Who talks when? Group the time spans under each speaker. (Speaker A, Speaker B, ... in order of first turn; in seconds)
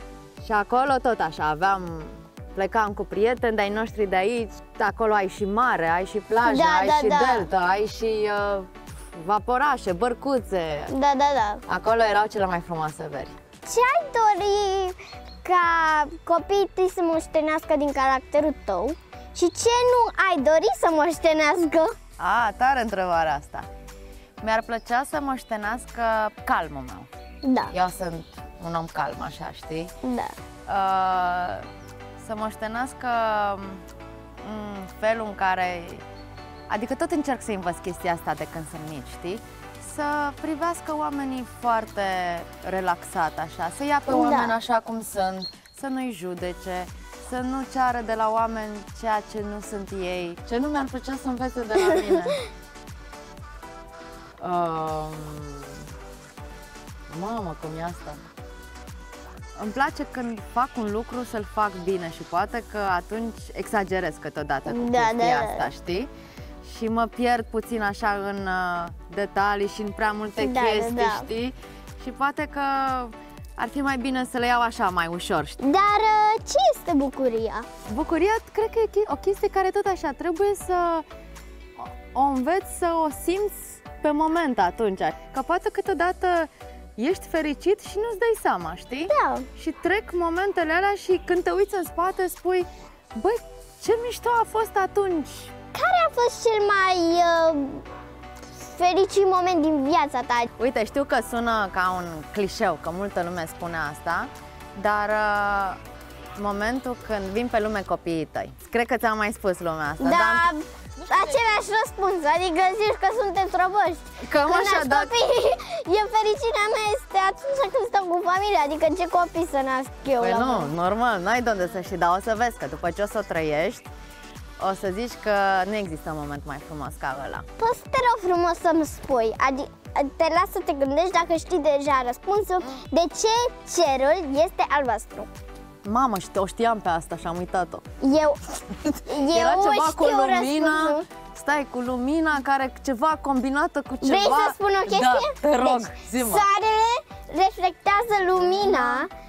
Speaker A: 0.4-10.9, 11.7-13.3, 22.2-23.7, 24.4-27.1, 27.7-29.9, 30.7-31.7, 32.2-33.9, 34.4-36.0, 36.7-52.4, 54.4-55.9, 57.1-58.2, 59.6-66.1, 66.6-75.6, 77.9-81.1, 81.8-95.5, 100.6-105.8, 106.4-110.5, 114.2-115.1, 120.1-123.9, 124.6-127.5, 135.8-137.8, 138.7-146.5, 148.4-149.1
Speaker B: 6.4-7.5, 10.9-11.6, 13.7-21.9, 27.4-27.7, 30.0-30.3, 44.1-44.5, 51.8-52.4, 64.7-65.7, 70.4-71.3, 75.6-77.7, 89.1-89.5, 95.7-97.8, 98.6-100.5, 110.0-120.7, 127.6-135.3, 138.0-138.5, 139.1-141.1, 144.0-149.1